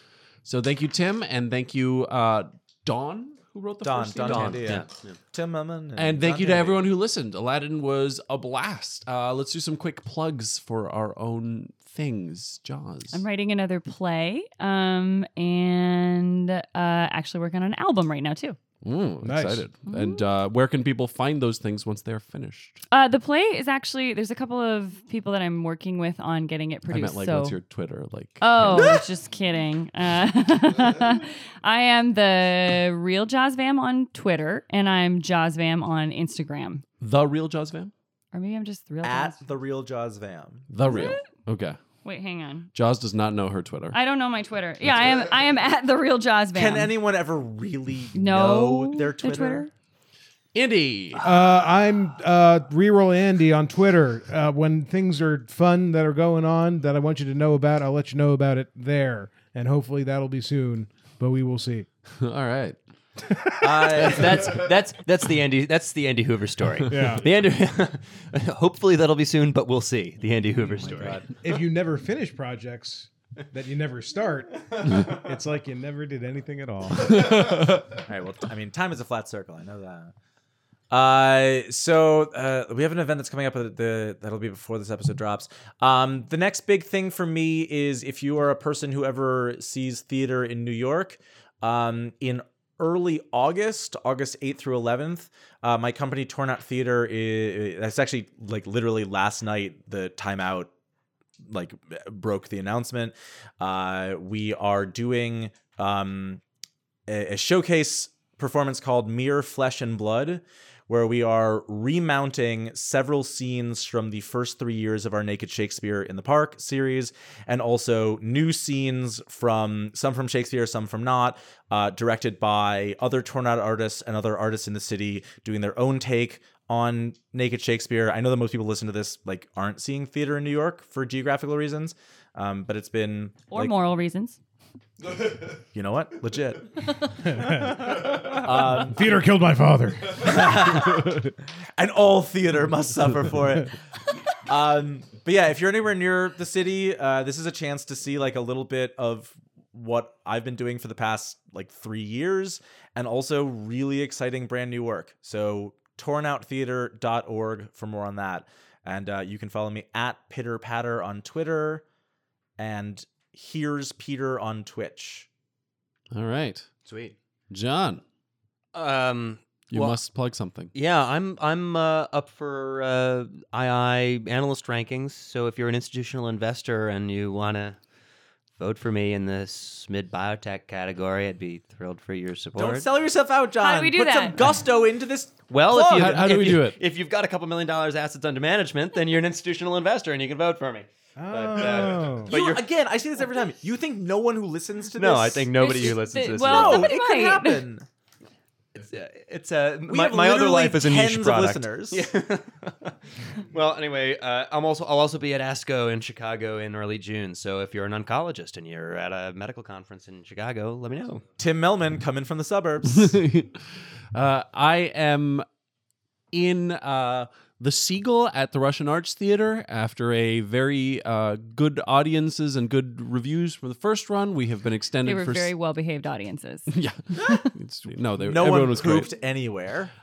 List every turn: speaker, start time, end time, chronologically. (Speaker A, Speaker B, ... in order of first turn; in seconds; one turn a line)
Speaker A: 0.5-4.8
Speaker B: 3.8-6.9
Speaker C: 4.2-5.1
Speaker A: 6.0-13.2
Speaker D: 13.1-18.6
Speaker A: 18.8-22.8
Speaker E: 19.2-19.7
Speaker D: 19.9-20.2
Speaker D: 22.9-27.6
Speaker A: 26.9-29.0
Speaker D: 28.4-36.9
Speaker A: 37.0-37.9
Speaker D: 38.3-39.5
Speaker B: 39.0-41.1
Speaker A: 40.7-41.8
Speaker D: 40.9-41.3
Speaker D: 42.0-42.7
Speaker A: 42.7-44.0
Speaker D: 43.9-47.0
Speaker B: 46.5-49.7
Speaker D: 48.1-49.7
Speaker A: 50.5-51.2
Speaker E: 51.2-61.9
Speaker A: 62.2-62.8
Speaker E: 63.3-64.1
Speaker B: 63.6-64.7
Speaker C: 63.8-71.3
Speaker E: 66.9-67.3
Speaker E: 71.4-77.5
Speaker A: 77.1-78.0
Speaker B: 78.0-80.1
Speaker B: 80.9-100.7
Speaker B: 101.5-106.4
Speaker B: 107.1-133.7
Speaker D: 133.5-134.4
Speaker B: 135.7-136.8
Speaker E: 137.2-140.7
Speaker B: 137.4-139.0
Speaker B: 140.2-143.8
Speaker B: 144.5-161.8
Speaker B: 162.6-165.3
Speaker A: 166.1-166.7
Speaker C: 166.9-167.2
Speaker A: 167.5-168.0
Speaker C: 168.7-170.0
Speaker A: 169.7-170.7
Speaker C: 170.7-177.8
Speaker C: 178.6-182.9
Speaker B: 182.6-186.4
Speaker D: 183.6-184.5
Speaker C: 185.5-192.7
Speaker A: 185.9-186.8
Speaker E: 191.2-192.3
Speaker B: 192.3-197.9
Speaker C: 195.0-196.9
Speaker D: 195.6-197.7
Speaker C: 198.8-202.9
Speaker B: 199.8-202.1
Speaker C: 203.5-211.2
Speaker B: 211.4-213.2
Speaker A: 212.9-215.5
Speaker A: 216.3-225.5
Speaker D: 225.0-227.5
Speaker A: 226.7-229.1
Speaker B: 228.3-229.9